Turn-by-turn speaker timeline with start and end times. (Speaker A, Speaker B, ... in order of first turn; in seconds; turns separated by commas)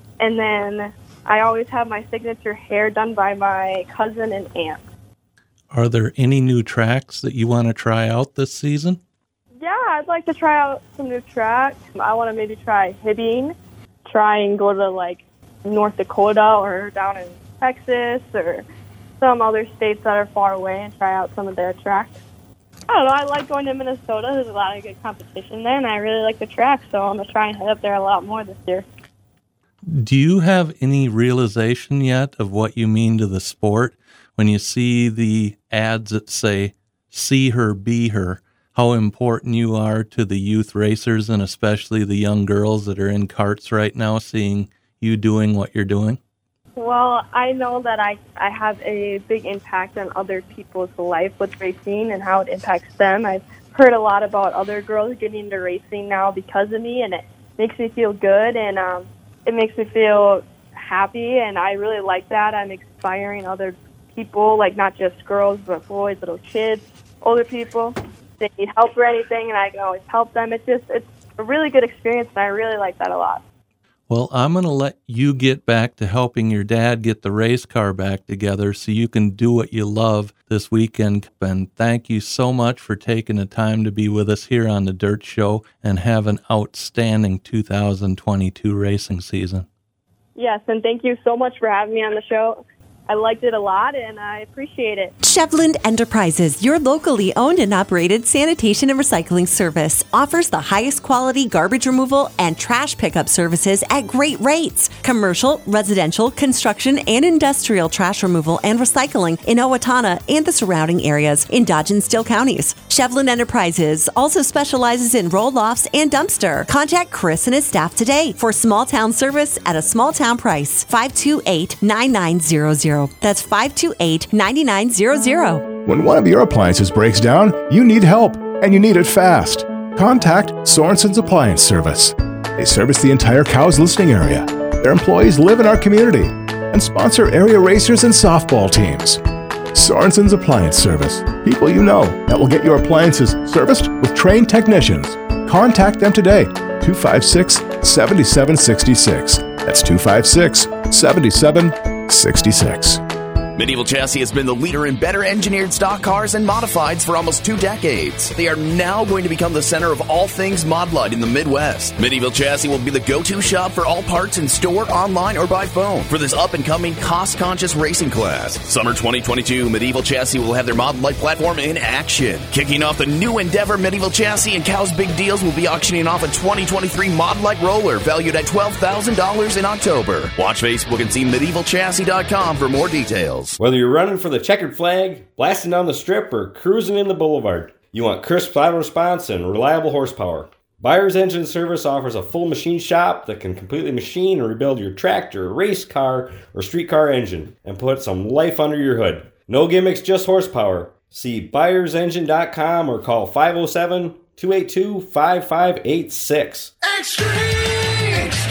Speaker A: 0.2-4.8, Speaker B: 5.7-9.0, Speaker A: 9.6-13.5, Speaker A: 14.1-18.6, Speaker A: 19.2-22.2, Speaker A: 22.9-28.9, Speaker B: 29.9-46.2, Speaker A: 46.8-73.4, Speaker B: 74.1-89.7, Speaker A: 90.4-95.1, Speaker C: 95.2-125.7, Speaker D: 125.8-139.2, Speaker D: 139.7-153.0, Speaker E: 153.6-183.6, Speaker F: 183.6-206.7